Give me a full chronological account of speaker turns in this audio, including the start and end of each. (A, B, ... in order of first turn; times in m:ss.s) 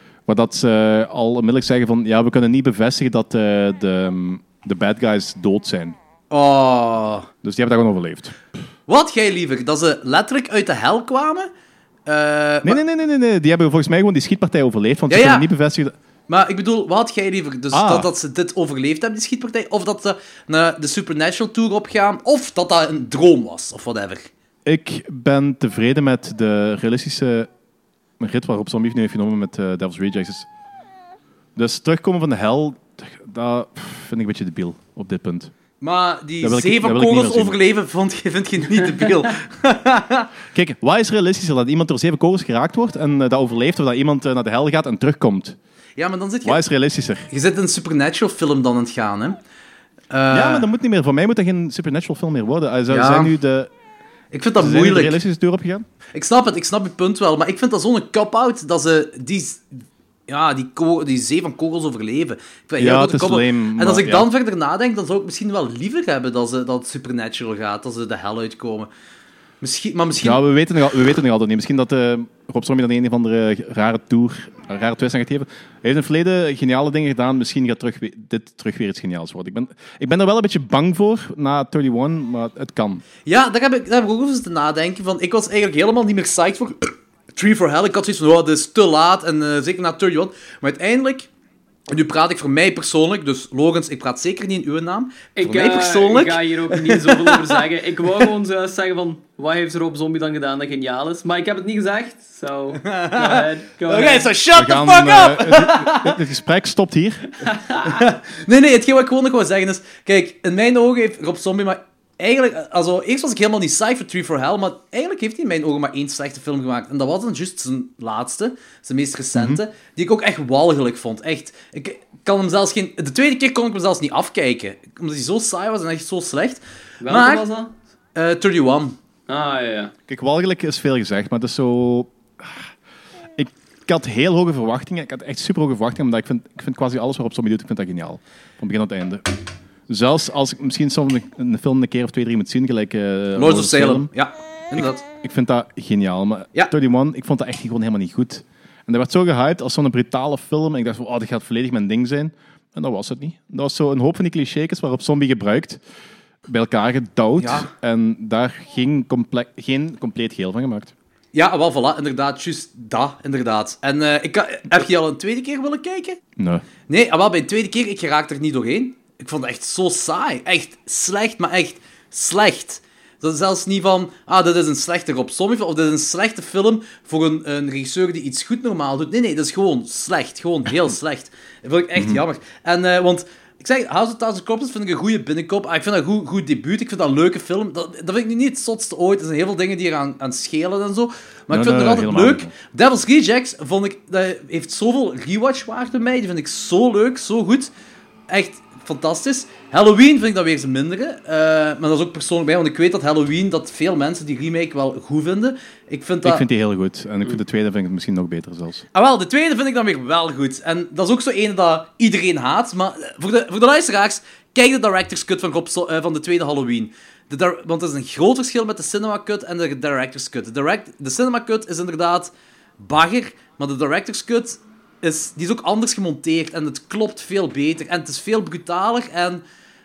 0:00.3-0:06.0 A
0:06.3-0:07.3 B
0:07.4-0:08.4 A
0:08.9-0:11.5 B
0:12.1-0:12.8 B
0:12.6-0:16.0 A
0:15.1-0:15.5 B
0:16.3-0:24.3 B
0:17.7-0:18.1 A
0:24.6-0:27.5 A
0:28.2-0:30.5 A
0:31.6-0:35.5 A
0:35.8-0:40.3 B
0:36.4-0:37.6 A
0:40.5-0:45.6 A
0:46.0-0:46.6 B
0:46.4-0:47.3 A
0:47.3-0:49.4 B
0:50.1-0:50.7 B
0:50.3-0:53.7 A
0:52.9-0:53.3 B
0:54.3-0:55.2 B
0:54.6-0:55.9 A
0:56.1-1:08.9 B
1:02.8-1:04.3 A
1:09.6-1:10.4 B
1:10.2-1:23.0 A
1:23.3-1:31.3 B
1:31.9-1:37.6 B
1:35.4-1:44.3 C
1:42.8-1:46.2 B
1:44.5-1:47.3 A
1:47.4-1:48.0 C
1:47.8-2:07.4 B
1:59.4-1:59.6 A
2:07.0-2:07.7 C
2:08.2-2:09.0 B
2:09.3-2:09.9 C
2:10.1-2:12.7 A
2:13.4-2:19.2 A
2:19.9-2:24.1 A
2:23.4-2:25.0 B
2:24.8-2:35.8 A
2:36.5-2:40.9 A
2:37.4-2:37.7 B
2:41.3-2:46.2 B
2:46.4-2:46.6 A
2:46.9-3:17.7 B
3:02.0-3:02.2 A
3:11.5-3:12.5 A
3:18.3-3:26.5 B
3:26.2-3:28.8 A
3:28.9-3:49.4 B